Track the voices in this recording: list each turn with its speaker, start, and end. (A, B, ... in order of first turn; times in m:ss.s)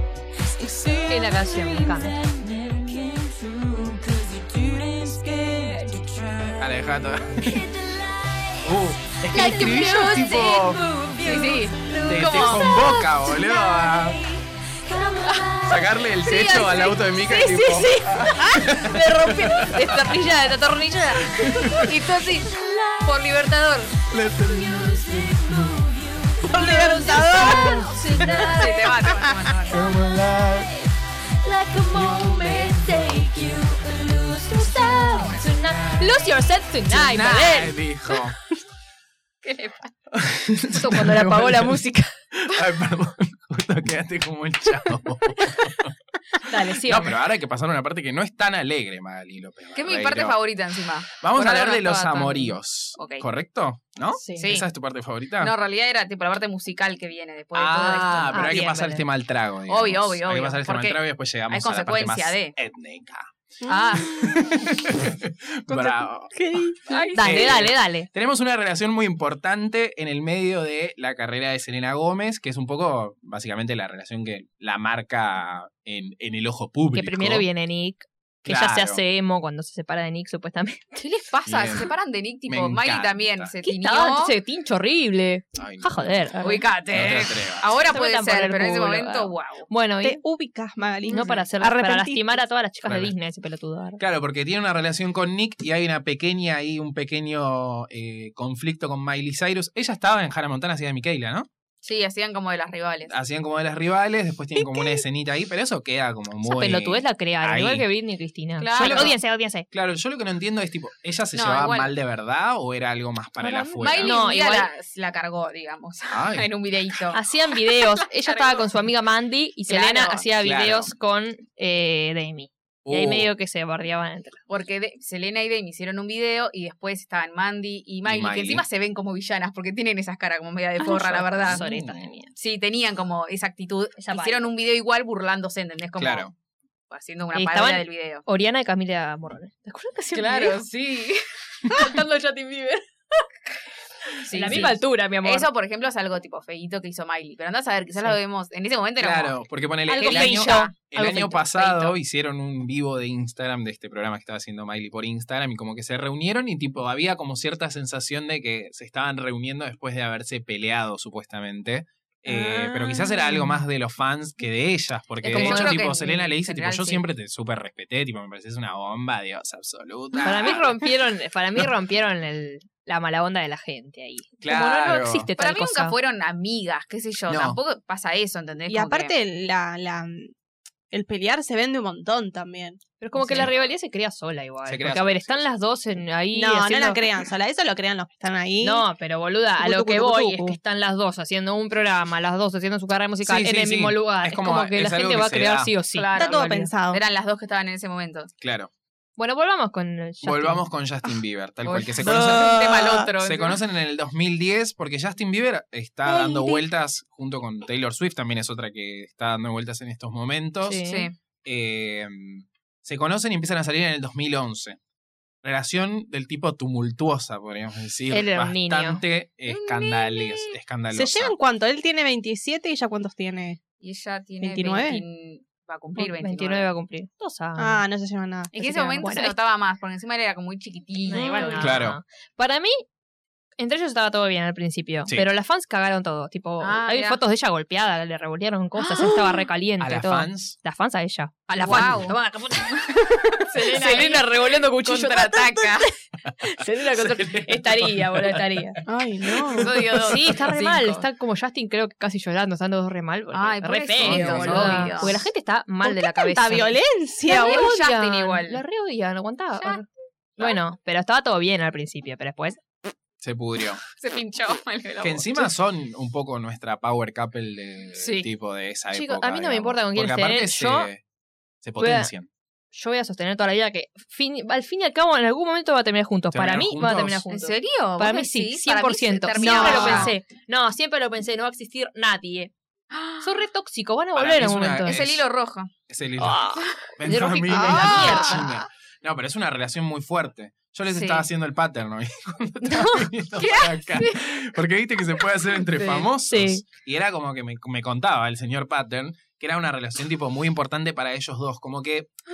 0:00.4-0:06.6 A
0:01.1-0:02.2 B
0:06.6-0:07.7 C
0:07.3-0:16.0 A
0:08.6-0:10.8 C
0:11.2-0:12.7 D
0:12.0-0:14.2 C
0:15.6-0:20.1 C
0:16.2-0:17.0 D
0:17.2-0:23.6 A
0:19.7-0:21.1 B
0:21.1-0:21.9 C
0:21.7-0:22.5 D
0:23.0-0:23.9 D
0:24.1-0:25.4 C
0:24.1-0:36.2 A
0:26.4-0:27.9 E
0:26.8-0:27.2 B
0:27.3-0:28.4 C
0:28.4-0:29.8 D
0:29.7-0:30.7 C
0:35.4-0:37.7 B
0:36.9-0:37.7 D
0:37.3-0:38.4 C
0:39.4-0:39.9 D
0:40.1-0:50.4 C
0:40.7-0:42.2 B
0:46.4-0:47.2 B
0:49.8-0:53.2 D
0:51.1-0:55.5 C
0:54.2-0:54.5 B
0:54.4-0:54.7 D
0:55.4-0:58.6 D
0:57.5-1:03.3 C
0:58.3-0:59.0 B
0:59.7-1:02.5 D
1:03.6-1:04.4 E
1:03.6-1:04.3 D
1:04.0-1:06.6 C
1:05.7-1:06.8 E
1:06.9-1:07.6 D
1:06.9-1:08.1 B
1:07.2-1:17.5 C
1:16.9-1:21.1 B
1:18.4-1:19.0 C
1:21.0-1:24.3 D
1:21.4-1:21.9 C
1:22.5-1:23.5 C
1:23.6-1:26.6 B
1:25.5-1:26.3 C
1:26.4-1:29.7 D
1:26.9-1:27.7 C
1:27.8-1:30.2 B
1:30.0-1:32.4 E
1:31.1-1:34.0 B
1:31.1-1:31.4 D
1:32.8-1:33.1 C
1:34.0-1:41.5 C
1:41.8-1:43.1 D
1:43.1-1:47.8 C
1:44.6-1:45.0 E
1:46.4-1:49.7 B
1:48.6-1:49.2 D
1:48.8-1:49.2 C
1:49.7-1:54.2 C
1:51.3-1:51.9 D
1:53.4-1:54.7 B
1:53.8-1:58.8 D
1:56.1-1:56.5 C
1:57.1-2:04.4 B
1:59.7-2:00.2 D
2:00.4-2:00.9 C
2:02.8-2:03.3 C
2:04.5-2:11.6 D
2:08.0-2:08.6 C
2:10.8-2:12.3 B
2:11.4-2:12.1 C
2:12.4-2:16.3 D
2:14.0-2:14.5 B
2:16.0-2:16.3 C
2:16.9-2:18.2 D
2:17.3-2:20.6 B
2:20.1-2:22.0 D
2:21.7-2:22.8 B
2:24.2-2:29.4 D
2:24.3-2:25.5 B
2:24.4-2:24.7 C
2:29.0-2:50.8 C
2:29.9-2:32.0 B
2:29.9-2:30.7 D
2:42.3-2:43.6 E
2:45.2-2:45.8 B
2:45.2-2:47.0 D
2:50.2-2:55.9 B
2:50.2-2:50.5 D
2:54.4-2:55.3 C
2:55.4-2:59.2 D
2:57.3-2:57.6 C
2:58.7-3:00.3 E
3:00.9-3:03.4 E
3:03.0-3:07.0 B
3:03.3-3:03.7 C
3:04.6-3:05.5 C
3:06.3-3:08.9 E
3:08.6-3:16.7 B
3:09.6-3:10.6 E
3:13.2-3:15.7 C
3:15.9-3:18.3 D
3:16.1-3:17.0 E
3:18.4-3:18.7 C
3:19.2-3:20.6 B
3:20.2-3:30.8 C
3:21.6-3:23.6 D
3:22.0-3:23.1 E
3:26.0-3:26.6 E
3:30.6-3:31.1 B
3:30.8-3:31.1 D
3:31.4-3:34.8 C
3:35.4-3:41.3 C
3:38.1-3:39.0 B
3:39.5-3:40.5 D
3:40.9-3:43.6 E
3:43.8-3:46.7 D
3:44.4-3:45.0 E
3:46.0-3:47.8 B
3:47.6-3:49.3 E
3:48.5-3:49.3 B
3:48.5-3:51.8 D
3:51.1-3:52.8 B
3:51.2-3:51.5 E
3:51.6-3:52.0 C
3:53.6-4:08.8 B
3:56.6-3:57.2 D
3:58.9-3:59.2 D
3:59.8-4:00.6 C
4:01.6-4:02.1 D
4:01.7-4:02.1 C
4:02.8-4:05.9 D
4:06.9-4:08.7 C
4:08.8-4:09.7 E
4:09.4-4:10.0 C
4:09.6-4:11.0 D
4:10.0-4:19.9 B
4:13.3-4:15.2 D
4:14.0-4:14.9 C
4:14.4-4:15.2 E
4:15.8-4:17.7 E
4:17.3-4:18.6 D
4:20.4-4:22.6 B
4:23.2-4:23.8 C
4:23.9-4:25.5 D
4:25.0-4:31.0 C
4:28.0-4:28.3 D
4:28.9-4:30.9 B
4:31.6-4:32.3 C
4:31.8-4:32.1 B
4:32.7-4:42.5 B
4:36.3-4:37.2 C
4:37.3-4:40.1 D
4:39.3-4:40.1 E
4:42.9-4:43.4 D
4:43.2-4:45.0 B
4:44.1-4:45.2 C
4:44.8-4:45.7 D
4:45.9-5:02.2 C
4:46.2-4:48.5 B
4:47.5-4:48.4 E
4:47.9-4:48.2 D
4:50.9-4:51.2 D
4:52.6-4:53.1 B
4:53.4-4:54.2 D
4:55.8-4:56.0 D
4:56.3-4:56.6 B